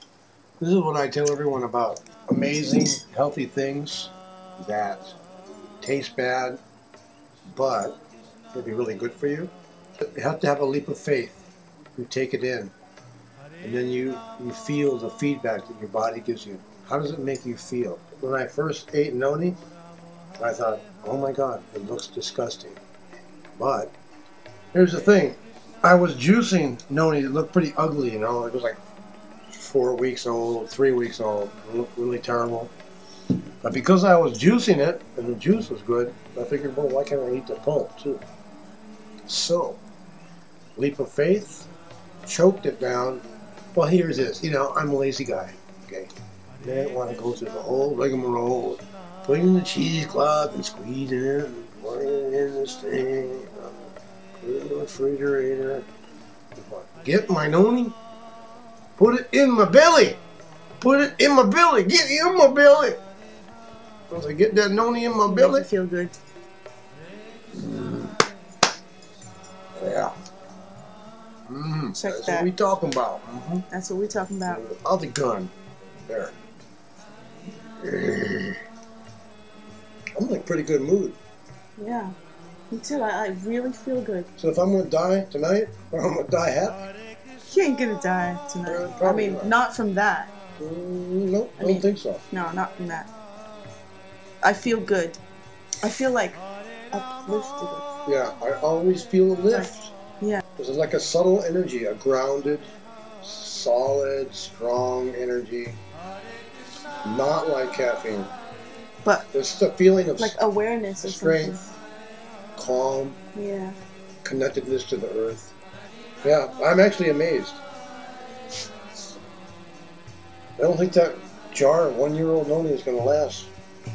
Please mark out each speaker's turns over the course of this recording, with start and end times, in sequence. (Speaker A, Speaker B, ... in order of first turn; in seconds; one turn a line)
Speaker A: 0.6-5.2
Speaker A: 5.8-6.6
Speaker A: 7.5-8.0
Speaker A: 8.5-11.4
Speaker A: 11.9-12.7
Speaker A: 13.6-19.6
Speaker A: 20.4-22.8
Speaker A: 23.6-23.9
Speaker A: 24.7-28.8
Speaker A: 29.5-32.7
Speaker A: 33.6-38.2
Speaker A: 39.3-39.8
Speaker A: 40.8-41.7
Speaker A: 42.2-43.2
Speaker A: 43.7-55.9
Speaker A: 56.5-58.0
Speaker A: 59.0-60.2
Speaker A: 60.8-63.0
Speaker A: 64.1-65.7
Speaker B: 65.3-66.1
Speaker A: 67.5-68.2
Speaker A: 69.8-70.1
Speaker A: 71.5-73.6
Speaker B: 71.9-72.5
Speaker B: 73.7-74.6
Speaker A: 74.4-76.3
Speaker A: 77.8-78.6
Speaker A: 80.2-81.2
Speaker B: 81.8-82.1
Speaker B: 82.7-84.3
Speaker A: 84.4-86.9
Speaker B: 87.5-90.3
Speaker A: 88.7-89.5
Speaker A: 90.6-92.2
Speaker B: 91.6-93.1
Speaker B: 94.4-95.2
Speaker B: 95.8-97.8
Speaker A: 98.0-99.9
Speaker B: 99.5-100.4
Speaker A: 100.6-102.7
Speaker A: 103.2-105.8
Speaker A: 107.0-108.3
Speaker A: 109.3-110.4
Speaker B: 110.2-111.7
Speaker A: 111.0-111.6
Speaker A: 112.5-113.2
Speaker B: 113.3-113.8
Speaker A: 114.2-115.5
Speaker A: 116.2-117.6
Speaker A: 120.6-123.5